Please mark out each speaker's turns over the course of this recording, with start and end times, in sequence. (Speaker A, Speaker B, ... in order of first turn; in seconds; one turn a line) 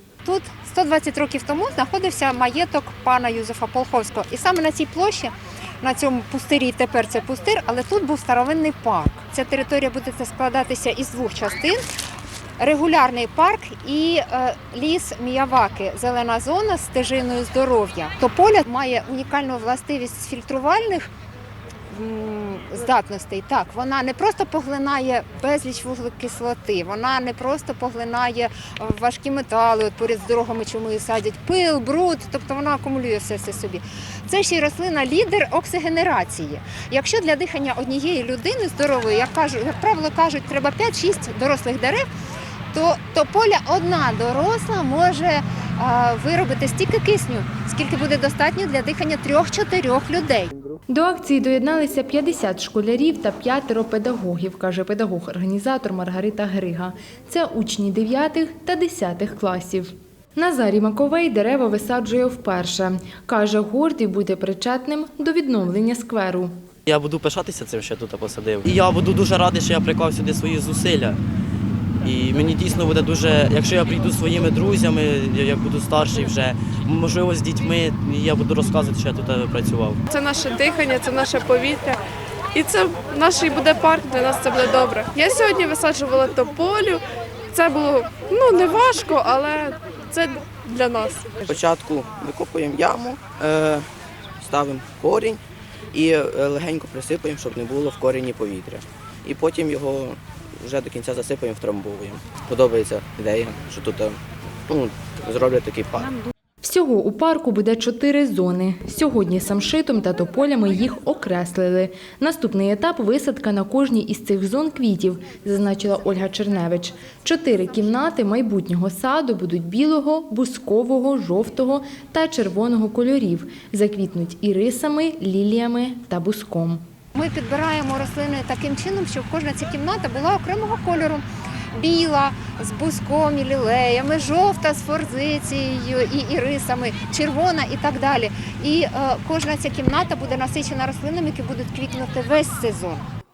Speaker A: 0.2-11.8
Speaker A: 12.6-21.1
Speaker A: 21.9-42.0
Speaker A: 42.7-50.5
Speaker B: 50.9-66.5
Speaker C: 66.9-71.2
Speaker C: 72.0-80.0
Speaker D: 80.1-82.0
Speaker D: 82.5-87.0
Speaker D: 87.5-91.4
Speaker E: 91.4-93.9
Speaker E: 94.4-95.4
Speaker E: 95.9-106.2
Speaker B: 106.6-126.8
Speaker A: 127.1-143.0